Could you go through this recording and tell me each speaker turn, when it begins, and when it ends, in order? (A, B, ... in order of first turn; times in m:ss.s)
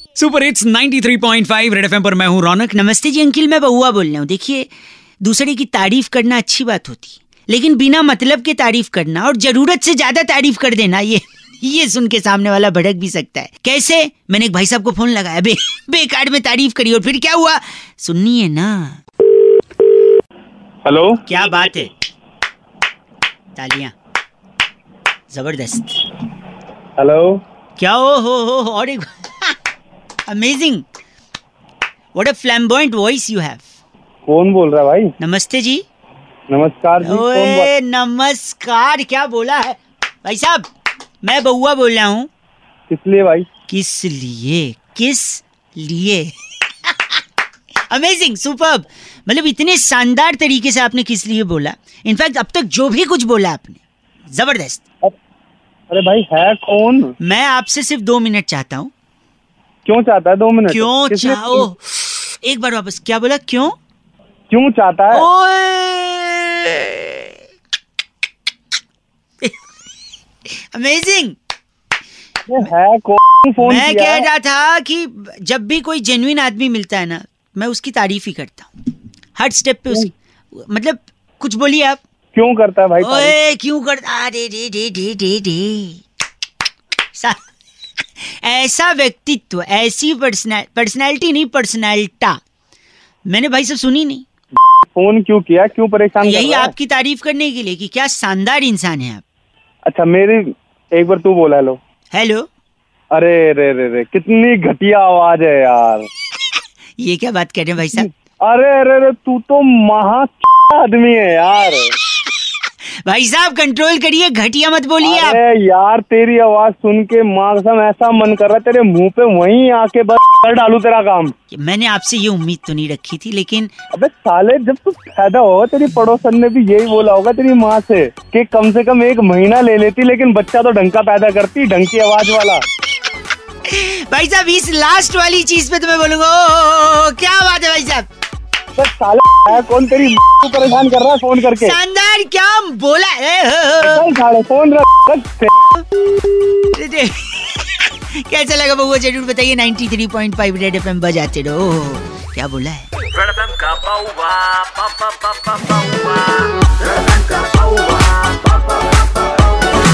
0:00.2-0:02.5 A
0:02.3-0:04.7 B
0:05.2-0:19.0 B
0:20.8-0:21.2 C
0:21.2-0:21.9 B
0:23.6-0:23.9 B
0:25.3-0:26.0 B
0:27.0-0:27.4 C
0:27.8-0:29.5 B
0:30.3-0:30.8 B
0:32.1-0:33.6 B
0:34.3-0:35.1 C
0:35.2-0:35.8 B
0:36.5-0:37.7 C
0:37.0-0:40.6 B
0:41.2-0:42.3 B
0:42.9-0:43.5 C
0:43.7-0:46.3 B
0:46.8-0:47.2 B
0:47.9-0:53.8 B
0:54.3-0:54.8 B
0:55.9-0:57.1 C
0:57.2-0:58.9 B
0:59.8-1:01.7 C
1:00.7-1:03.7 B
1:04.5-1:05.2 C
1:05.1-1:07.3 B
1:10.7-1:11.4 B
1:12.5-1:14.2 C
1:13.6-1:18.7 B
1:19.4-1:22.0 B
1:22.3-1:23.3 C
1:23.0-1:26.0 B
1:28.2-1:32.4 B
1:33.3-1:34.2 B
1:34.9-1:36.7 C
1:36.2-1:39.2 B
1:39.8-1:41.8 C
1:42.1-1:42.4 B
1:43.1-1:46.1 C
1:47.0-1:48.1 B
1:47.9-1:51.9 C
1:53.0-1:55.4 B
1:55.0-2:01.3 C
2:01.5-2:03.7 B
2:03.9-2:12.6 C
2:13.6-2:18.0 B
2:18.8-2:21.8 C
2:21.4-2:24.1 B
2:23.8-2:25.5 C
2:26.6-2:32.9 B
2:33.1-2:39.4 D